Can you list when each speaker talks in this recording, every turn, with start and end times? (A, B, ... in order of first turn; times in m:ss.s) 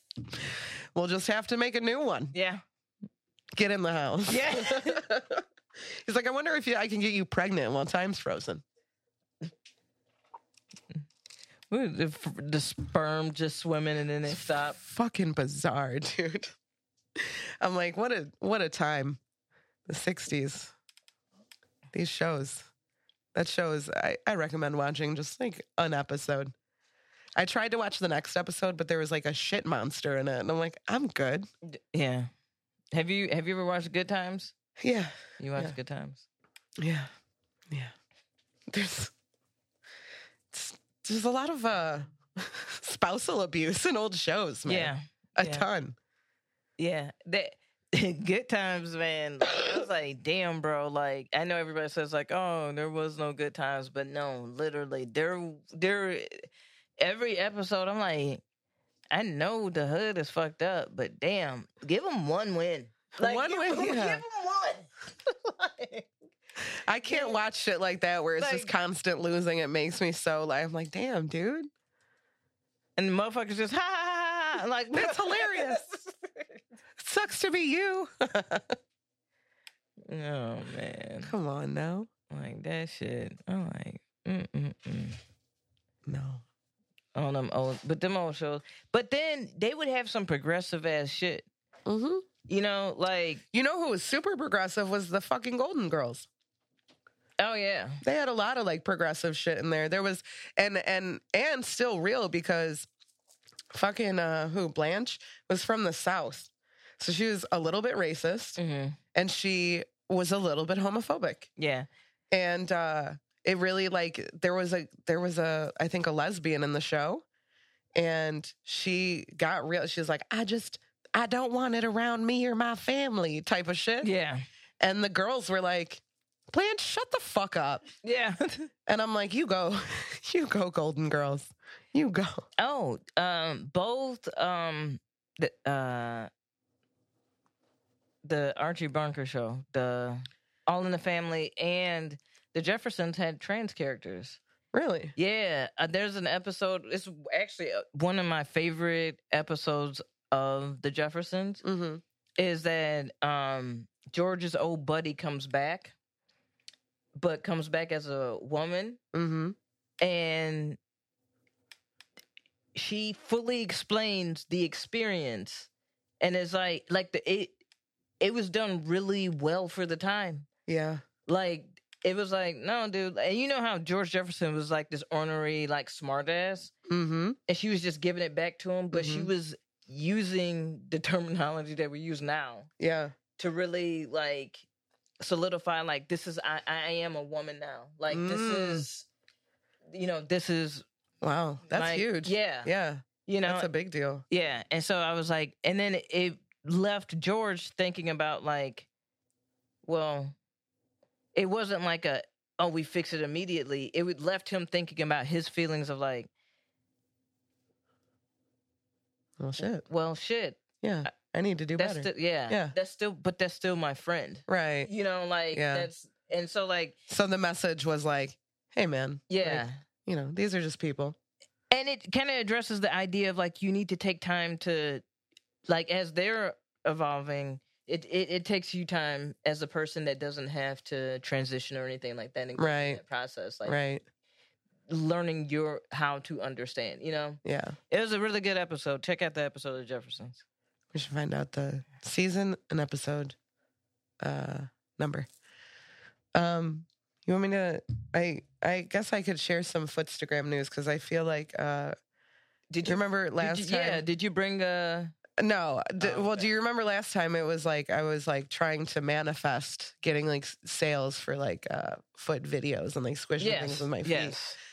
0:00.3-0:02.3 A
0:02.3-0:02.6 B
0:03.5-0:08.6 A
0:04.3-0:05.0 B
0:11.7-0:14.8 B
0:14.8-0:16.5 A
0:17.2-0:19.2 A
0:19.9-0:20.7 A
0:21.9-0:22.7 A
0:23.3-0:26.5 A
0:27.4-0:31.5 A
0:31.7-0:32.3 B
0:32.9-0:34.5 B
0:34.8-0:35.7 A
0:35.4-0:36.2 B
0:36.8-0:37.1 A
0:38.7-0:39.1 A
0:40.5-0:46.0 A
0:44.7-0:45.7 B
0:46.8-0:56.5 B
0:57.0-0:58.4 B
0:59.1-1:06.1 B
1:03.2-1:04.2 A
1:06.8-1:11.7 A
1:07.1-1:07.4 B
1:08.4-1:08.7 B
1:13.0-1:16.6 B
1:14.9-1:15.8 A
1:17.0-1:18.8 A
1:20.1-1:21.3 B
1:21.2-1:22.1 A
1:22.3-1:25.2 B
1:26.1-1:26.4 A
1:27.2-1:31.5 B
1:31.9-1:32.3 A
1:32.5-1:33.4 B
1:33.5-1:36.3 A
1:37.4-1:38.0 B
1:38.0-1:42.9 A
1:43.7-1:48.6 A
1:48.6-1:49.0 B
1:49.1-1:51.5 A
1:51.6-1:51.9 B
1:52.3-1:57.2 A
1:58.0-2:04.1 A
2:04.0-2:04.5 B
2:04.8-2:07.9 A
2:08.0-2:08.7 B
2:08.9-2:12.4 A
2:12.6-2:16.3 B
2:18.2-2:24.4 B
2:24.7-2:25.2 A
2:25.2-2:31.6 B
2:31.6-2:32.0 A
2:32.4-2:35.9 B
2:37.2-2:39.0 B
2:39.1-2:39.6 A
2:40.0-2:40.8 B
2:42.7-2:45.7 B
2:46.2-2:47.6 B
2:48.2-2:50.5 B
2:50.7-2:51.0 A
2:51.3-2:56.7 B
2:56.9-2:57.4 A
2:57.5-3:02.7 B
2:58.9-2:59.3 A
3:02.8-3:03.2 A
3:03.4-3:04.6 B
3:05.2-3:09.1 B
3:08.1-3:08.9 A
3:09.9-3:10.8 B
3:11.2-3:14.2 A
3:11.7-3:12.7 B
3:13.2-3:13.7 B
3:14.3-3:18.9 B
3:19.8-3:20.4 B
3:21.4-3:26.3 B
3:29.4-3:29.8 A
3:29.9-3:30.6 B
3:30.8-3:32.8 A
3:31.8-3:37.0 B
3:34.5-3:34.9 A
3:35.5-3:35.9 A
3:37.1-3:41.2 A
3:39.3-3:39.8 B
3:41.7-3:45.0 B
3:45.7-3:53.8 B
3:52.6-3:53.0 A
3:53.6-3:54.0 A
3:54.9-4:00.4 B
3:57.4-3:57.8 A
4:00.9-4:03.4 A
4:04.2-4:05.3 A
4:06.3-4:12.0 A
4:12.7-4:15.1 B
4:12.8-4:14.0 A
4:15.4-4:24.4 A
4:16.0-4:16.5 B
4:23.4-4:24.6 B